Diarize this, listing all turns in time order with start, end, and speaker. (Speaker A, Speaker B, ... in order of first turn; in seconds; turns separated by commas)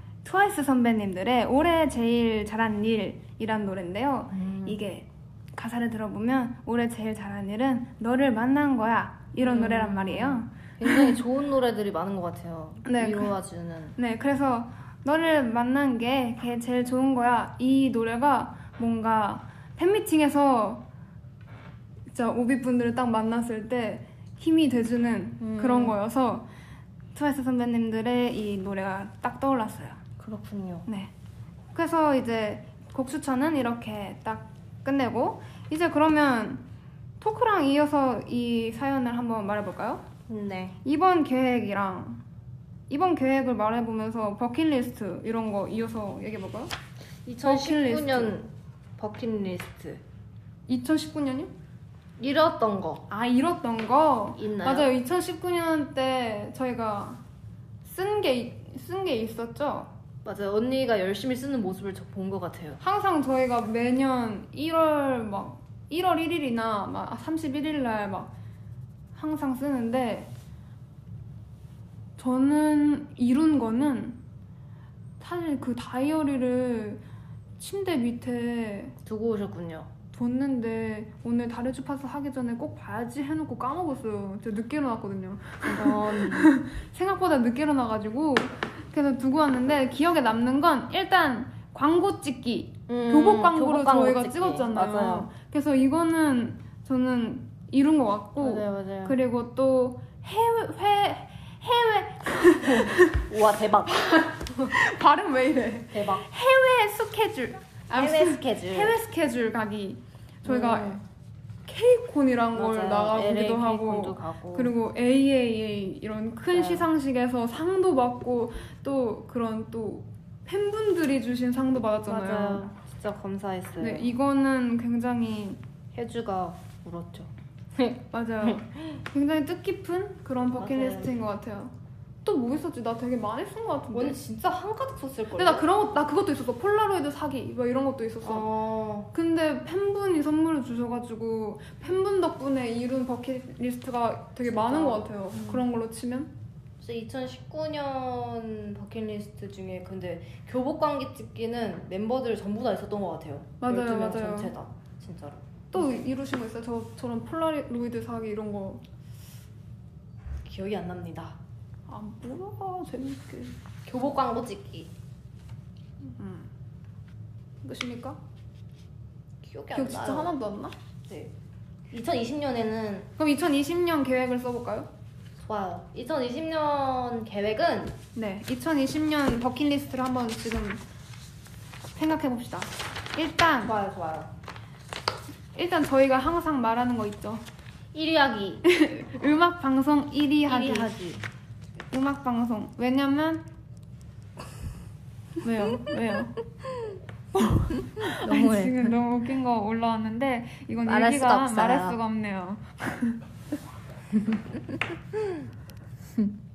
Speaker A: 0.2-11.2, Speaker B: 4.3-4.8, Speaker B: 9.4-14.0, Speaker A: 12.8-13.3, Speaker A: 14.0-20.8, Speaker A: 22.1-26.5, Speaker B: 25.4-26.0, Speaker A: 27.1-30.0, Speaker B: 30.2-30.9, Speaker A: 30.9-31.1, Speaker A: 31.8-36.6, Speaker A: 37.2-40.0, Speaker B: 40.3-40.8, Speaker A: 40.9-42.2, Speaker A: 42.9-46.7, Speaker B: 47.3-50.0, Speaker A: 47.4-48.4, Speaker A: 50.7-51.5, Speaker B: 52.2-53.0, Speaker A: 53.1-57.2, Speaker B: 54.4-54.9, Speaker A: 57.8-59.9, Speaker B: 60.2-62.8, Speaker A: 62.8-68.3, Speaker A: 69.2-70.3, Speaker A: 72.2-74.2, Speaker A: 75.2-77.0, Speaker A: 77.6-79.0, Speaker B: 79.0-79.9, Speaker A: 80.1-103.2, Speaker B: 85.6-86.5, Speaker B: 92.9-95.3, Speaker B: 98.4-99.2, Speaker B: 102.6-104.8, Speaker A: 104.7-111.0, Speaker B: 105.9-106.2, Speaker B: 107.9-109.0, Speaker B: 110.5-111.0, Speaker A: 111.7-122.7, Speaker B: 112.5-114.7, Speaker B: 116.5-116.9, Speaker B: 122.1-124.1, Speaker A: 123.8-125.6, Speaker B: 125.9-128.7, Speaker A: 128.1-131.7, Speaker B: 130.6-131.1, Speaker A: 132.2-134.2, Speaker B: 133.9-135.7, Speaker A: 135.3-138.5, Speaker B: 138.2-139.1, Speaker A: 139.1-146.3, Speaker B: 144.4-145.6, Speaker B: 146.8-156.0, Speaker A: 153.6-154.5, Speaker A: 155.7-158.8, Speaker B: 160.4-161.4, Speaker A: 161.9-163.5, Speaker B: 163.8-164.9, Speaker A: 166.2-166.5, Speaker A: 167.6-168.2, Speaker B: 169.4-170.3, Speaker A: 169.7-170.7, Speaker B: 171.1-171.3, Speaker B: 171.9-173.1, Speaker A: 173.2-174.9, Speaker B: 175.4-178.0, Speaker A: 178.2-180.8, Speaker A: 182.0-183.7, Speaker B: 183.6-184.3, Speaker A: 185.6-187.4, Speaker B: 187.9-188.6, Speaker A: 188.7-190.9, Speaker B: 190.5-191.2, Speaker A: 191.9-193.4, Speaker A: 195.4-196.4, Speaker B: 196.6-196.9, Speaker A: 197.4-203.2, Speaker B: 197.7-199.0, Speaker B: 200.8-202.0